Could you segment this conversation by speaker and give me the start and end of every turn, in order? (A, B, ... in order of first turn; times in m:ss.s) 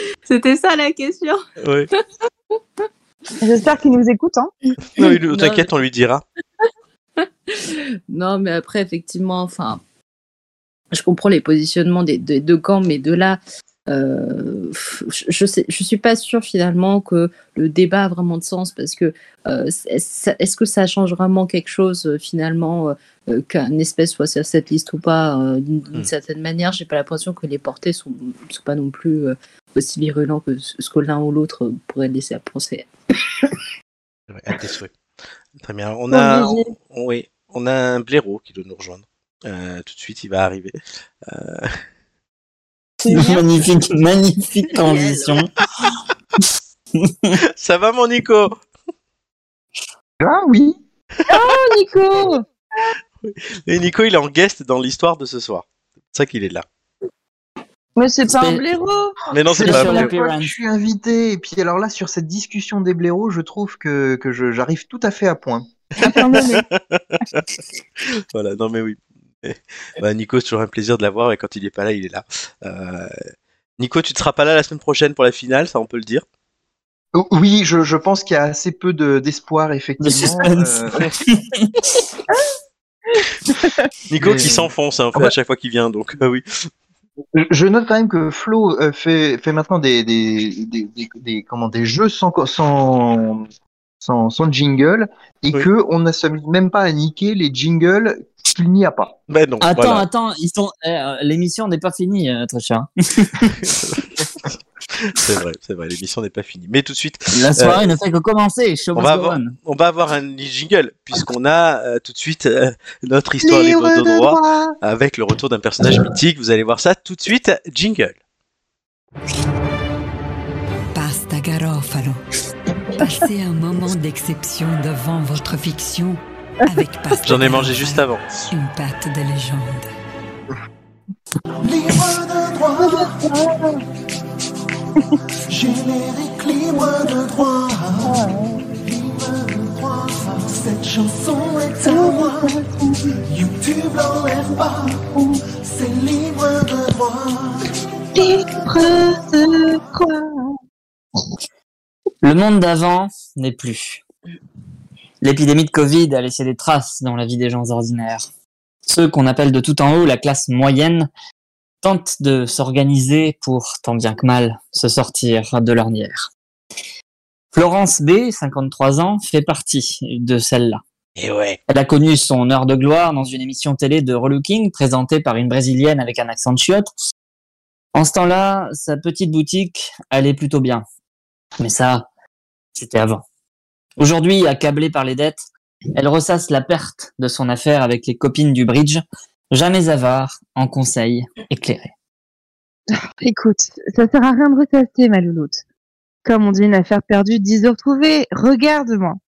0:00.2-0:01.4 A
0:01.6-0:01.9 B
0:03.4-0:04.5 C
0:04.9-0:06.2 B
0:05.0-0:05.7 A
0:07.2-0:09.8 A
0:10.9-0:32.9 A
0:34.3-0:34.9 B
0:35.6-0:41.7 B
0:36.1-0:36.7 C
0:43.0-0:43.4 C
0:43.1-0:45.5 D
0:44.8-0:45.4 A
0:47.0-0:47.3 D
0:47.5-0:48.5 B
0:50.2-0:50.8 E
0:51.3-0:52.4 C
0:53.2-0:56.6 B
0:58.0-0:59.3 C
0:58.3-0:58.6 D
0:59.3-1:00.1 B
0:59.5-1:00.6 D
0:59.6-1:05.6 E
1:06.0-1:06.6 C
1:06.3-1:07.4 B
1:08.2-1:13.1 B
1:13.8-1:16.2 B
1:17.1-1:21.1 E
1:20.0-1:22.0 D
1:23.1-1:23.9 C
1:24.1-1:26.7 B
1:24.2-1:25.3 E
1:27.3-1:33.5 E
1:34.0-1:39.1 E
1:39.3-1:40.0 B
1:39.6-1:43.6 D
1:43.6-1:44.0 B
1:45.1-1:47.8 B
1:47.3-1:49.5 D
1:48.9-1:58.2 B
1:53.4-1:54.8 E
2:00.9-2:02.2 F
2:03.0-2:09.9 F
2:07.2-2:08.2 B
2:11.6-2:13.2 G
2:12.8-2:13.8 C
2:15.5-2:22.5 G
2:18.0-2:18.6 C
2:21.8-2:23.0 C
2:23.3-2:25.0 G
2:25.6-2:29.8 G
2:28.1-2:30.3 C
2:32.2-2:34.0 D
2:35.2-2:38.2 D
2:38.9-2:41.1 D
2:41.8-2:46.3 D
2:47.5-2:50.8 D
2:51.2-2:51.6 B
2:51.7-2:56.9 D
2:57.9-3:00.8 D
3:01.6-3:02.1 D
3:02.7-3:03.2 D
3:04.0-3:05.4 D
3:06.0-3:11.9 D
3:13.2-3:15.6 C
3:16.2-3:19.2 C